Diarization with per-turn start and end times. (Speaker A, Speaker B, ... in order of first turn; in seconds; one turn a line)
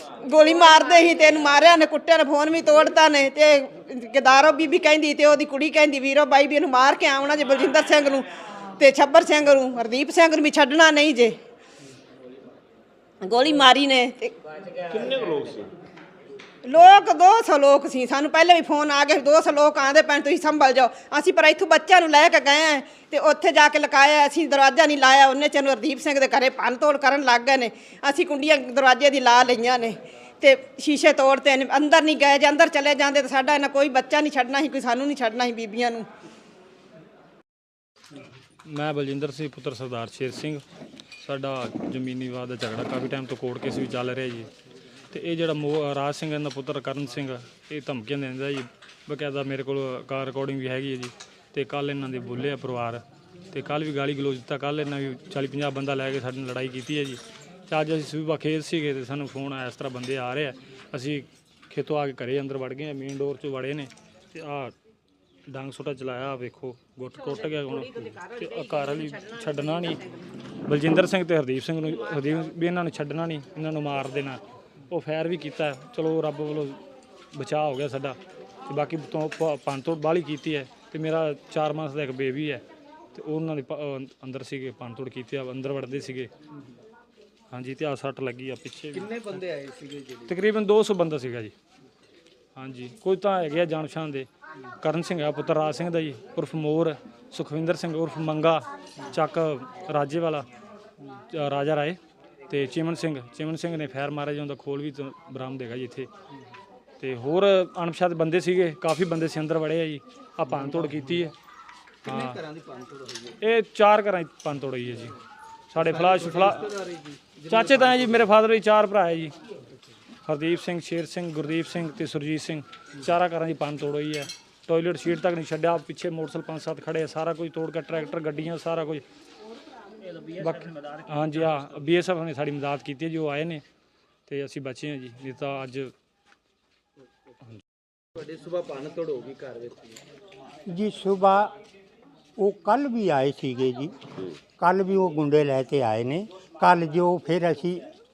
Speaker A: 0.2-8.2
Speaker A: 8.8-11.4
Speaker A: 13.2-14.3
Speaker A: 16.6-36.0
Speaker B: 38.7-40.6
Speaker B: 41.2-44.5
Speaker B: 45.1-64.7
Speaker B: 65.5-70.0
Speaker B: 70.7-74.4
Speaker B: 74.9-76.8
Speaker B: 77.3-78.2
Speaker B: 78.7-82.6
Speaker B: 83.1-86.3
Speaker B: 87.5-89.4
Speaker C: 89.0-90.3
Speaker B: 90.3-91.5
Speaker B: 92.5-94.3
Speaker B: 94.8-100.4
Speaker B: 101.3-102.0
Speaker B: 102.5-106.1
Speaker B: 107.0-111.3
Speaker B: 112.0-112.4
Speaker C: 112.1-113.3
Speaker B: 113.4-115.1
Speaker B: 115.7-116.6
Speaker C: 115.8-118.1
Speaker B: 117.5-119.3
Speaker B: 120.3-129.0
Speaker B: 130.4-133.6
Speaker B: 134.3-135.9
Speaker C: 138.2-139.9
Speaker D: 140.7-141.5
Speaker D: 142.4-143.9
Speaker D: 144.6-147.8